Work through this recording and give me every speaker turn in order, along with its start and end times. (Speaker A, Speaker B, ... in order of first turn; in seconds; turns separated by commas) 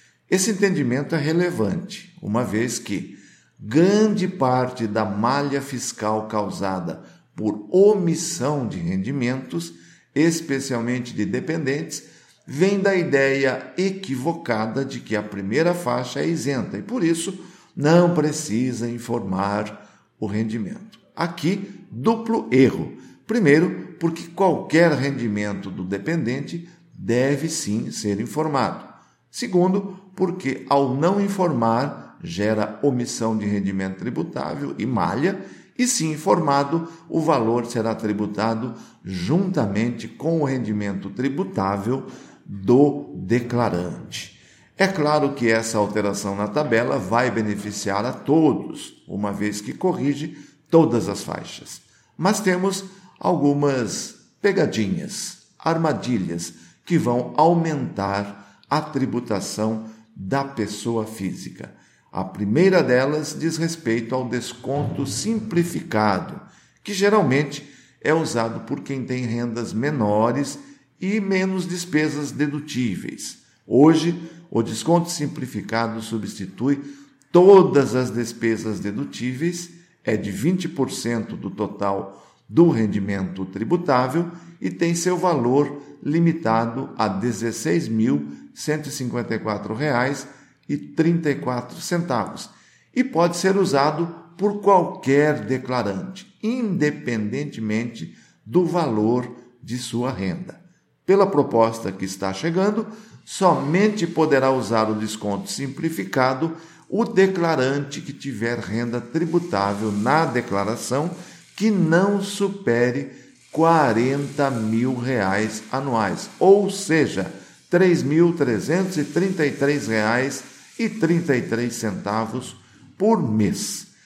Speaker A: 0.3-123.9